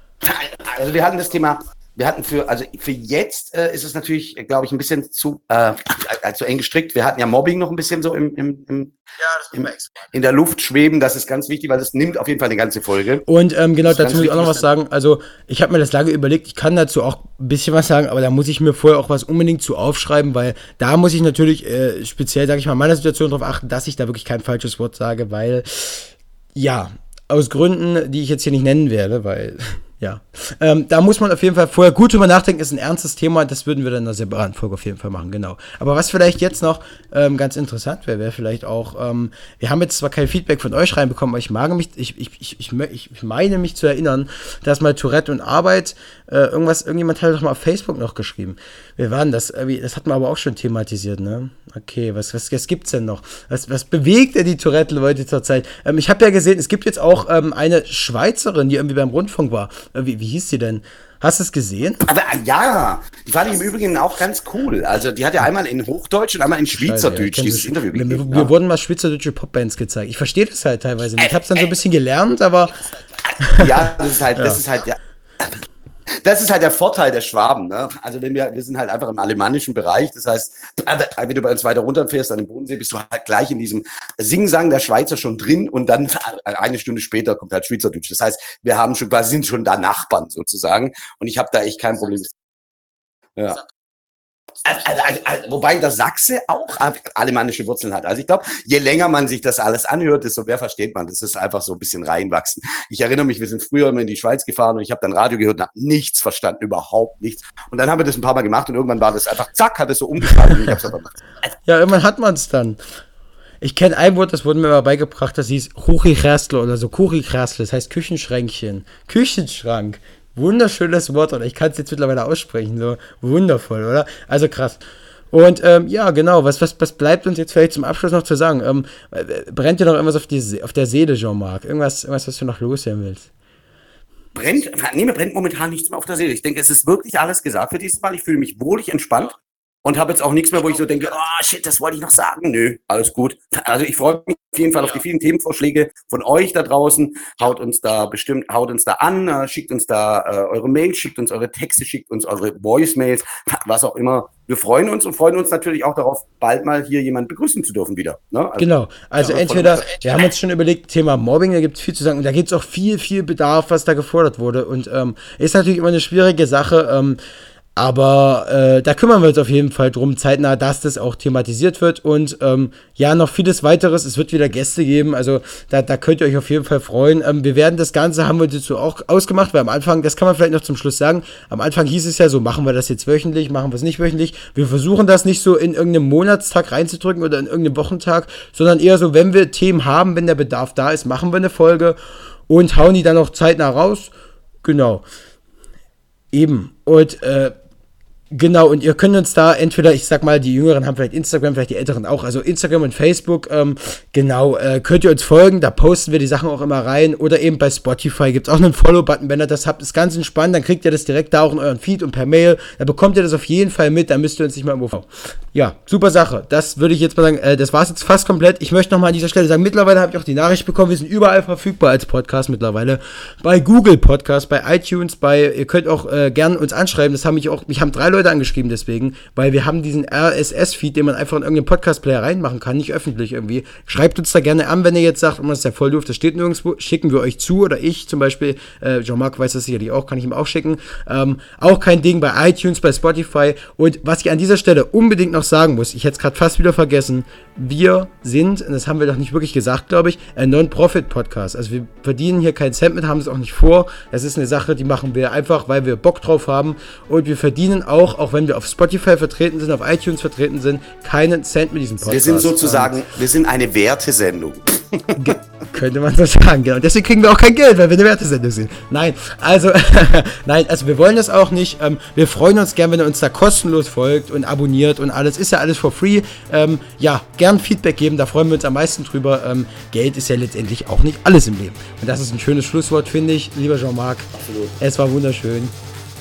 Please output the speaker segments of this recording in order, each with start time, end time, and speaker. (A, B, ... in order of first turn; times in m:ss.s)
0:00.2-0:13.2 A
0:13.3-1:02.0 B
0:13.8-0:14.6 A
1:02.0-1:08.5 A
1:06.7-1:12.8 B
1:13.4-1:14.6 B
1:13.5-1:15.6 A
1:16.1-1:32.3 A
1:33.4-1:33.6 A
1:34.6-1:51.2 A
1:51.6-1:52.8 B
1:53.6-2:04.8 B
2:05.3-2:13.3 B
2:14.4-2:38.7 A
2:38.6-2:47.2 B
2:39.2-2:40.3 A
2:47.8-3:12.0 B
3:12.5-3:14.1 B
3:14.6-3:15.0 B
3:16.3-3:17.5 B
3:18.3-4:23.0 B
4:22.0-4:25.4 A
4:25.2-4:45.7 B
4:44.3-4:44.8 A